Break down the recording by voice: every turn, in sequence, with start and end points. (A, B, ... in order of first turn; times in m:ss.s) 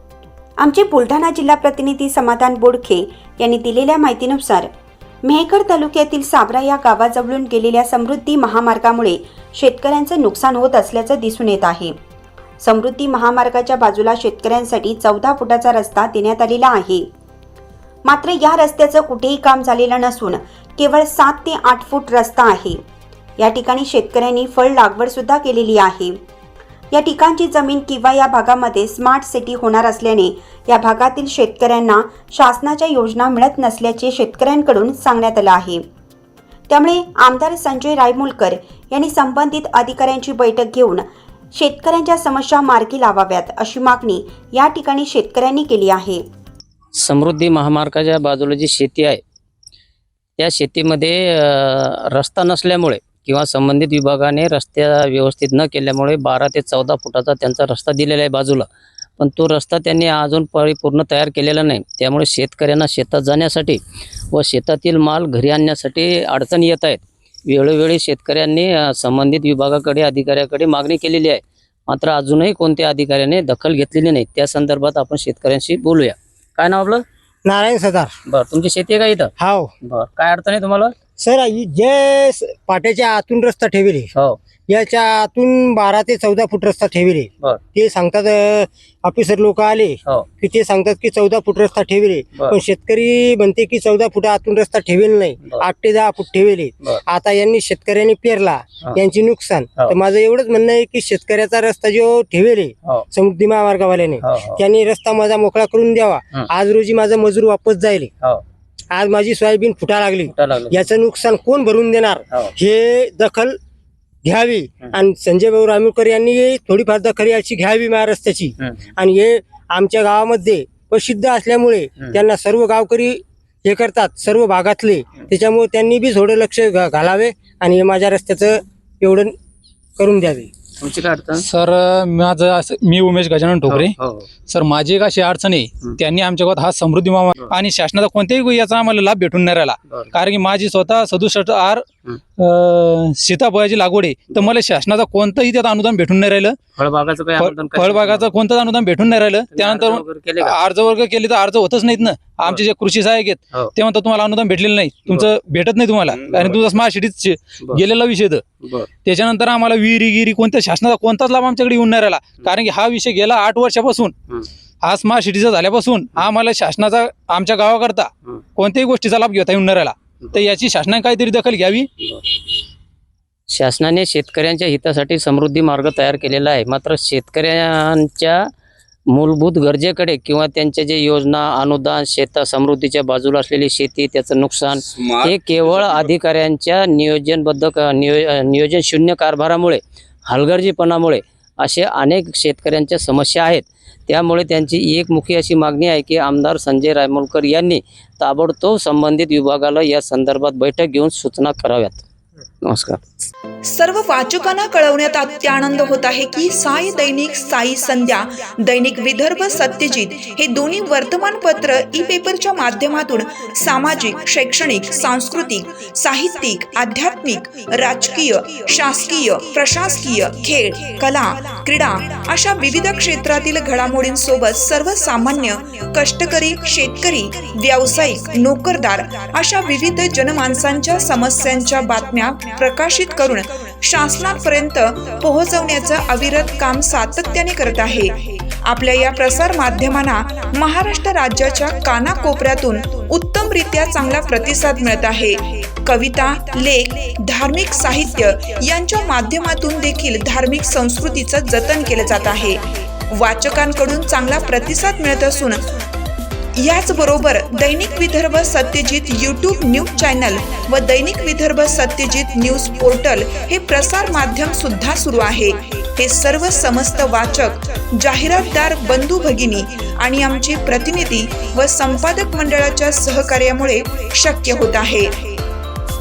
0:00.6-0:04.7 A
0:05.2-0:12.0 A
0:12.6-0:17.1 A
0:18.0-0:22.8 A
0:23.4-0:26.2 A
0:26.9-0:35.8 A
0:36.7-0:46.2 A
0:47.0-0:49.2 B
0:50.4-0:58.7 B
0:59.2-1:03.8 B
1:04.3-1:17.0 B
1:17.4-1:18.1 C
1:18.3-1:19.3 B
1:19.4-1:19.7 C
1:19.8-1:21.0 B
1:21.2-1:24.1 C
1:24.7-1:48.1 C
1:44.2-1:44.6 B
1:48.9-1:53.6 C
1:50.3-1:50.9 B
1:54.2-2:09.4 C
2:10.0-2:10.5 C
2:10.8-2:11.4 B
2:11.4-2:14.0 D
2:13.7-2:14.3 B
2:14.5-2:21.8 D
2:22.4-2:26.6 D
2:26.8-2:28.3 B
2:27.4-2:38.4 D
2:29.5-2:30.6 B
2:36.2-2:36.6 B
2:38.6-2:38.9 B
2:39.0-2:44.1 D
2:44.8-2:51.9 D
2:53.5-2:58.4 B
2:59.1-3:22.0 B
3:22.6-3:23.0 B
3:23.6-4:15.8 E
4:16.6-4:35.4 E